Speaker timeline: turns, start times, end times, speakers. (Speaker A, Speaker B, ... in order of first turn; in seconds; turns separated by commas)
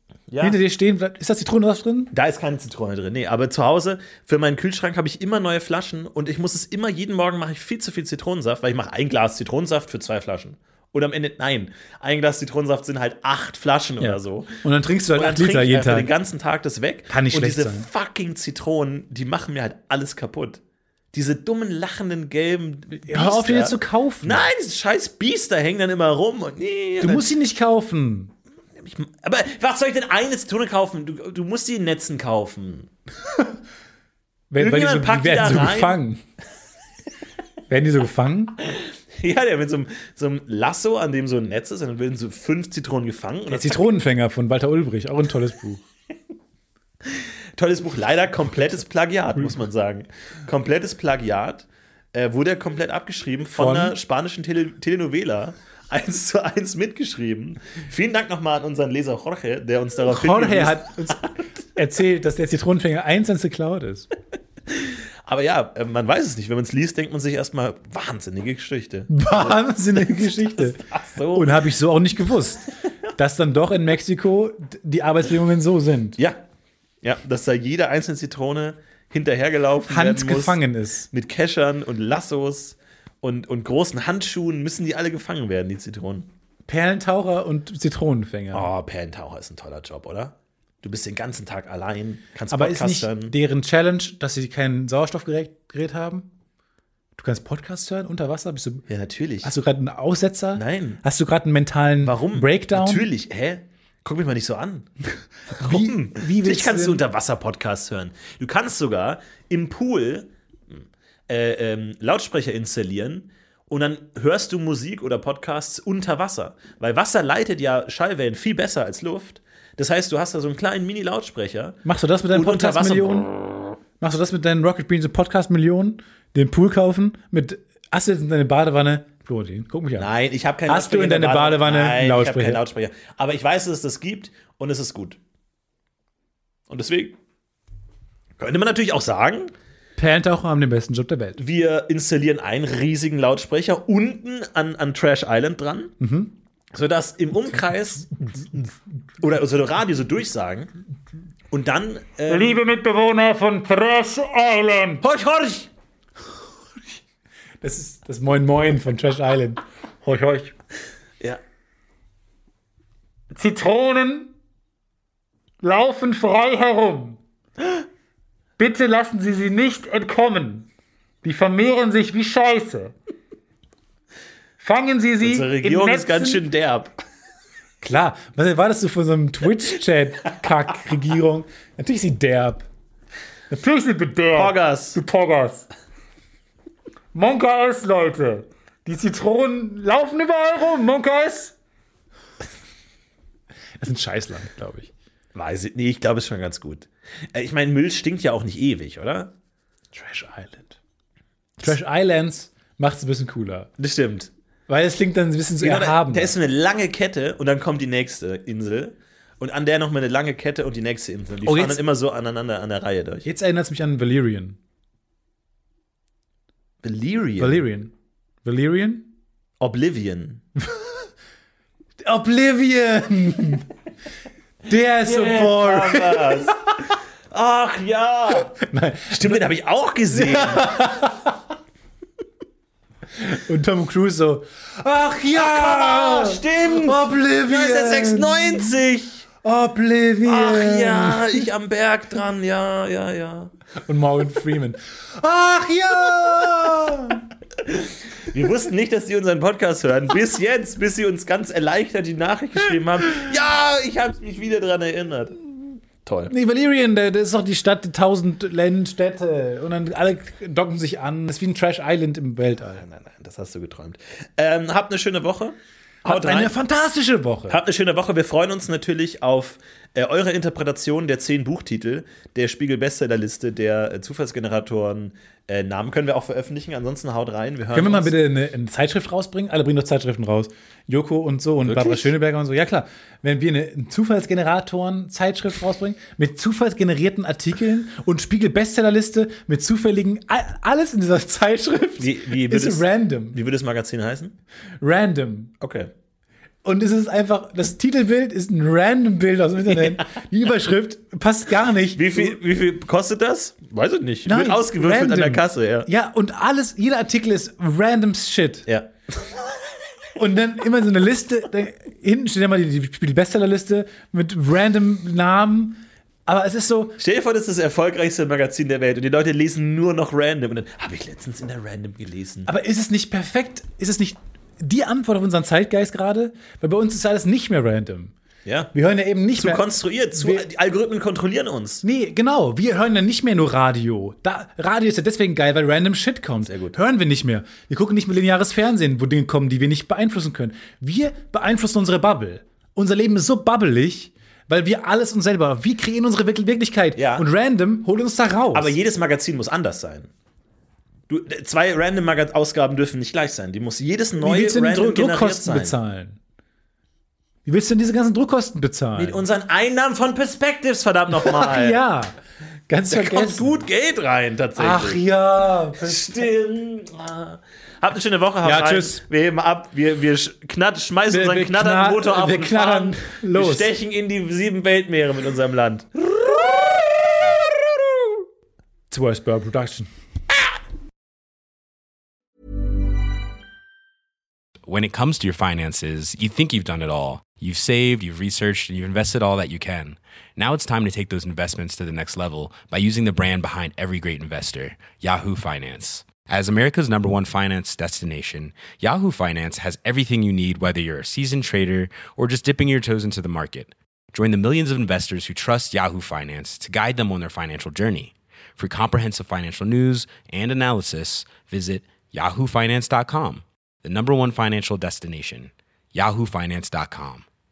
Speaker A: 0.3-0.6, Speaker B: 0.4-2.1, Speaker A: 2.1-14.5, Speaker B: 14.0-16.1, Speaker A: 15.1-20.6, Speaker B: 17.1-17.9, Speaker A: 21.1-27.3, Speaker B: 23.0-24.5, Speaker B: 27.0-28.3, Speaker A: 28.8-32.9, Speaker B: 34.5-36.2, Speaker A: 34.6-36.0, Speaker B: 37.7-38.6, Speaker A: 39.2-43.8, Speaker B: 43.5-45.8, Speaker A: 47.6-61.2, Speaker B: 53.5-54.0, Speaker B: 60.0-64.1, Speaker A: 64.7-71.6, Speaker B: 69.1-70.8, Speaker B: 71.3-76.2, Speaker A: 76.2-76.4, Speaker A: 77.0-80.6, Speaker B: 79.9-81.1, Speaker A: 81.1-86.3, Speaker B: 86.7-88.7, Speaker A: 88.5-93.3, Speaker B: 92.5-96.3, Speaker B: 97.2-98.8, Speaker A: 98.9-99.5, Speaker B: 99.4-103.0, Speaker A: 100.5-101.0, Speaker A: 102.0-104.9, Speaker B: 105.5-107.0, Speaker A: 105.5-121.8, Speaker B: 121.8-123.3, Speaker A: 122.3-123.3, Speaker B: 124.0-130.1, Speaker A: 130.0-135.2, Speaker B: 130.7-132.6, Speaker A: 136.7-137.2, Speaker A: 138.4-139.5, Speaker B: 139.9-141.4, Speaker A: 141.4-145.9, Speaker B: 146.0-146.3, Speaker A: 146.7-148.4, Speaker A: 149.2-150.7, Speaker A: 151.5-152.6, Speaker C: 152.3-155.0, Speaker A: 155.0-155.7, Speaker B: 157.6-160.5, Speaker C: 160.1-160.5, Speaker C: 163.3-164.3, Speaker C: 165.6-167.2, Speaker C: 168.6-170.7, Speaker C: 171.2-172.9, Speaker C: 174.6-176.4, Speaker A: 175.2-176.9, Speaker B: 177.8-182.7, Speaker C: 183.5-185.7, Speaker A: 184.3-185.0, Speaker C: 187.1-191.5, Speaker B: 193.8-194.9, Speaker A: 195.3-199.3, Speaker B: 199.9-200.8, Speaker B: 201.6-203.7, Speaker A: 203.8-204.3, Speaker B: 204.7-206.3, Speaker A: 205.6-213.3, Speaker B: 211.4-211.8, Speaker B: 213.2-214.6, Speaker A: 216.8-217.6, Speaker B: 217.4-217.9, Speaker B: 218.4-219.1, Speaker A: 219.6-220.4, Speaker B: 220.7-221.0, Speaker B: 222.0-223.7, Speaker B: 224.7-226.6, Speaker A: 225.0-228.5, Speaker B: 228.4-229.4, Speaker A: 229.1-230.9, Speaker B: 230.1-231.4, Speaker B: 233.2-238.7, Speaker A: 235.3-239.3, Speaker B: 239.4-241.5, Speaker A: 240.2-243.5, Speaker B: 243.8-247.2, Speaker A: 247.7-255.4, Speaker A: 256.0-256.3, Speaker B: 256.3-262.8, Speaker A: 262.8-266.5, Speaker B: 266.0-267.6, Speaker A: 267.5-278.1, Speaker B: 277.7-293.4, Speaker A: 281.6-282.1, Speaker A: 292.0-294.4, Speaker B: 294.8-295.5, Speaker A: 295.6-295.9, Speaker B: 296.6-302.4, Speaker A: 301.9-305.9, Speaker B: 304.2-308.7, Speaker B: 310.1-317.0, Speaker A: 317.0-322.5, Speaker B: 322.4-328.1, Speaker A: 328.4-328.7, Speaker B: 328.7-330.4, Speaker A: 329.4-331.8, Speaker B: 331.8-348.8, Speaker A: 336.4-336.8, Speaker A: 346.9-347.2, Speaker A: 348.5-350.1, Speaker A: 351.1-355.7, Speaker B: 354.2-356.2, Speaker B: 357.4-359.2, Speaker A: 358.9-361.8, Speaker B: 361.1-362.1, Speaker B: 362.7-363.5, Speaker A: 362.9-365.0, Speaker B: 364.6-366.3, Speaker A: 365.8-376.1, Speaker B: 368.4-369.0, Speaker B: 371.1-373.7, Speaker B: 378.9-379.9, Speaker D: 384.6-417.2